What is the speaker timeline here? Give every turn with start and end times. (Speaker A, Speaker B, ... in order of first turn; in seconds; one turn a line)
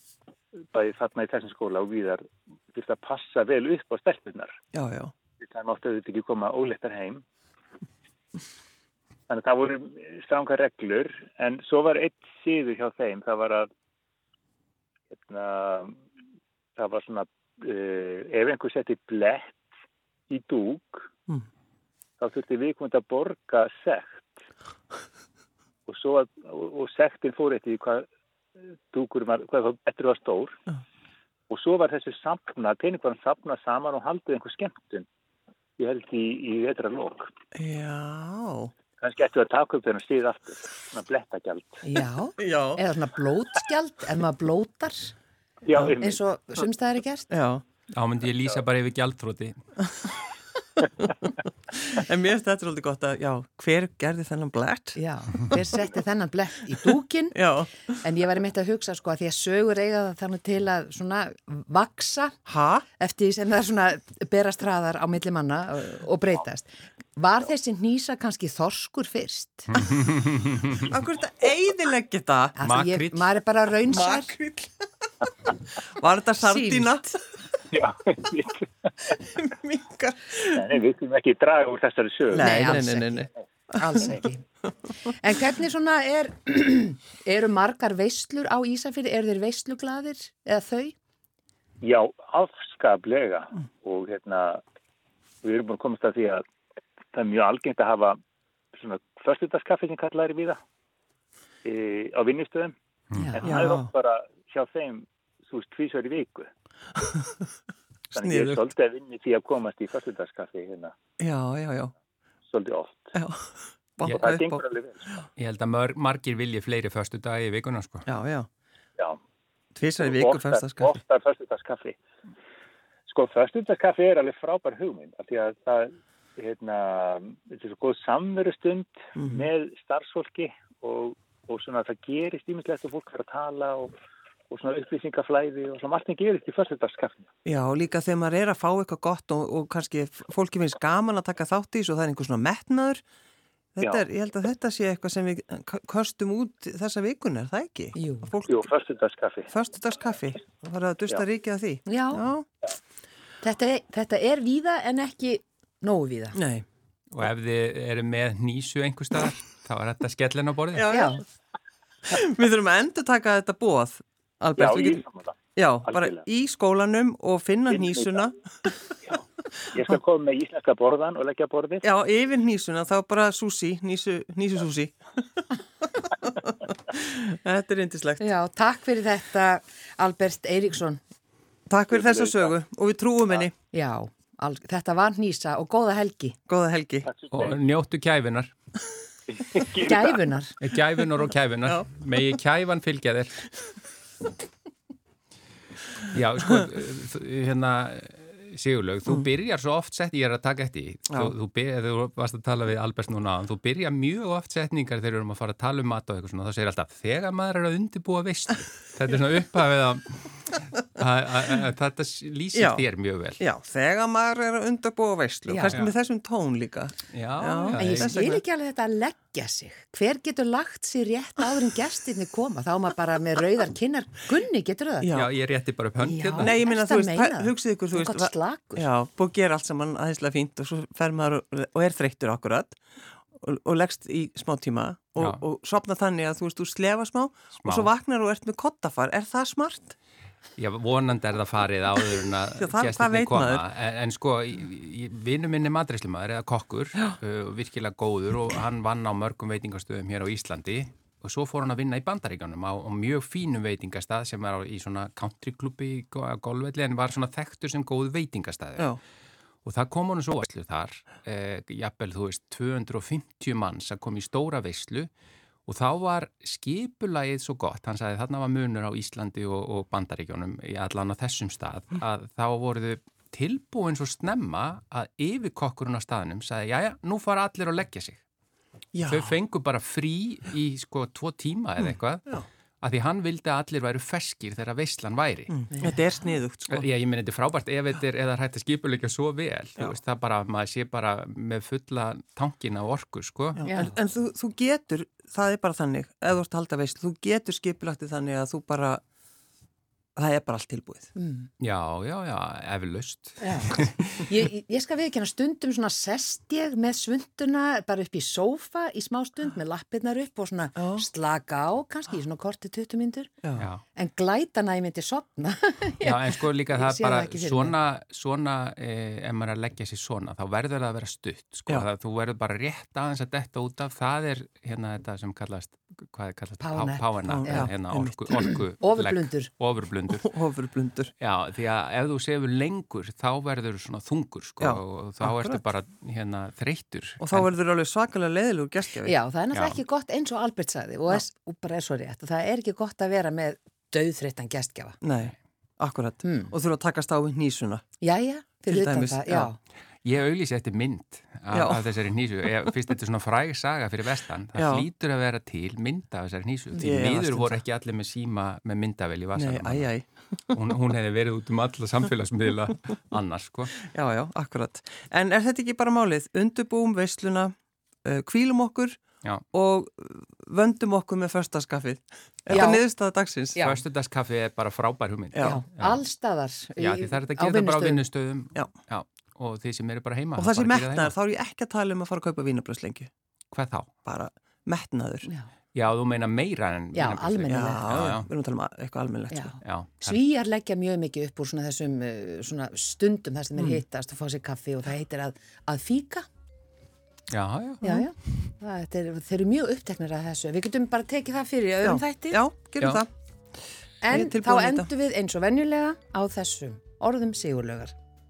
Speaker A: 0.7-4.5
Speaker B: 4.7-5.1
Speaker A: 5.4-7.2
Speaker A: 9.3-13.7
Speaker A: 15.2-15.9
Speaker A: 16.8-19.6
Speaker A: 20.3-21.1
Speaker A: 22.2-24.3
Speaker A: 25.9-28.1
Speaker A: 28.9-30.5
Speaker A: 31.5-35.0
Speaker A: 35.8-37.3
Speaker B: 37.5-38.7
Speaker A: 39.0-41.8
Speaker C: 41.8-45.1
Speaker B: 42.4-42.8
Speaker A: 45.6-46.2
Speaker C: 46.0-47.3
Speaker B: 47.3-47.6
Speaker D: 47.9-49.6
Speaker B: 51.7-55.0
Speaker C: 55.0-57.4
Speaker B: 57.3-57.9
Speaker C: 58.0-62.4
Speaker B: 62.5-62.9
Speaker C: 63.0-69.9
Speaker D: 69.7-70.8
Speaker B: 70.8-72.6
Speaker C: 72.6-74.3
Speaker D: 72.6-73.2
Speaker B: 73.9-74.9
Speaker B: 75.9-77.1
Speaker C: 76.4-77.1
Speaker A: 77.7-78.9
Speaker B: 79.1-80.6
Speaker A: 80.5-82.9
Speaker B: 82.3-84.1
Speaker C: 82.3-84.4
Speaker C: 85.0-90.9
Speaker A: 91.8-94.6
Speaker A: 95.4-96.4
Speaker A: 97.1-98.2
Speaker A: 98.7-100.6
Speaker A: 101.6-102.7
Speaker C: 103.2-103.5
Speaker A: 103.3-106.5
Speaker B: 103.4-103.9
Speaker B: 107.0-107.5
Speaker A: 108.1-110.9
Speaker B: 108.2-108.6
Speaker B: 111.2-111.9
Speaker A: 112.5-113.1
Speaker B: 113.1-114.6
Speaker A: 114.1-115.2
Speaker D: 115.4-118.0
Speaker B: 118.0-118.5
Speaker B: 119.8-121.0
Speaker A: 120.0-122.0
Speaker A: 123.1-133.9
Speaker B: 129.2-129.4
Speaker A: 134.5-137.3
Speaker B: 137.4-143.0
Speaker B: 143.8-148.6
Speaker C: 147.9-148.3
Speaker A: 148.5-149.5
Speaker B: 149.5-152.4
Speaker C: 151.8-152.2
Speaker C: 153.4-156.4
Speaker B: 156.3-156.6
Speaker D: 157.1-160.9
Speaker B: 160.7-161.2
Speaker C: 160.9-161.2
Speaker B: 162.1-165.0
Speaker A: 164.6-166.2
Speaker B: 165.6-168.3
Speaker A: 167.7-168.3
Speaker A: 169.1-171.8
Speaker B: 171.8-175.4
Speaker B: 176.0-178.2
Speaker C: 178.2-181.0
Speaker B: 181.7-183.5
Speaker A: 181.9-182.5
Speaker C: 183.7-186.4
Speaker B: 186.5-187.1
Speaker A: 187.1-187.6
Speaker D: 187.3-188.5
Speaker A: 189.3-190.2
Speaker C: 189.8-190.5
Speaker D: 190.6-193.5
Speaker D: 196.1-213.4
Speaker B: 212.5-212.9
Speaker B: 213.4-218.4
Speaker C: 215.5-215.8
Speaker D: 217.1-218.2
Speaker C: 217.8-225.2
Speaker B: 225.0-225.3
Speaker D: 225.1-226.6
Speaker C: 226.0-228.8
Speaker B: 226.4-232.8
Speaker B: 233.3-239.9
Speaker D: 237.6-237.9
Speaker D: 240.6-258.9
Speaker B: 242.6-243.6
Speaker D: 259.6-265.1
Speaker D: 265.7-278.2
Speaker B: 278.9-279.4
Speaker D: 279.0-285.6
Speaker B: 281.8-282.5
Speaker B: 285.5-286.9
Speaker C: 285.7-286.0
Speaker D: 286.7-293.7
Speaker B: 293.6-299.0
Speaker C: 293.6-293.9
Speaker B: 300.1-301.1
Speaker C: 301.1-301.5
Speaker D: 301.6-304.1
Speaker C: 303.4-313.3
Speaker B: 310.8-311.1
Speaker D: 313.6-313.8
Speaker C: 313.9-317.7
Speaker D: 316.0-330.3
Speaker C: 326.6-327.7
Speaker B: 327.3-328.4
Speaker C: 328.3-329.5
Speaker B: 330.1-331.1
Speaker D: 331.2-337.5
Speaker B: 334.6-335.6
Speaker B: 337.2-339.1
Speaker C: 339.0-345.0
Speaker D: 339.5-339.8
Speaker B: 345.0-347.8
Speaker C: 346.2-346.5
Speaker C: 348.0-349.6
Speaker B: 348.7-349.5
Speaker D: 350.0-359.9
Speaker B: 351.5-351.8
Speaker B: 354.5-354.9
Speaker B: 356.8-357.6
Speaker B: 359.3-360.3
Speaker D: 360.5-363.8
Speaker B: 363.8-367.5
Speaker B: 368.0-369.0
Speaker B: 369.5-373.7
Speaker C: 372.5-372.8
Speaker D: 373.6-376.0
Speaker B: 375.3-375.6
Speaker C: 375.4-378.1
Speaker D: 376.8-381.1
Speaker B: 380.4-383.1
Speaker D: 383.5-383.9
Speaker B: 384.0-385.3
Speaker D: 385.7-388.3
Speaker C: 386.9-387.9
Speaker B: 387.5-389.5
Speaker C: 389.3-396.2
Speaker D: 389.6-390.2
Speaker B: 393.6-393.8
Speaker D: 397.3-397.9
Speaker C: 397.8-402.4
Speaker B: 401.8-403.1
Speaker C: 404.0-407.9
Speaker B: 404.1-404.9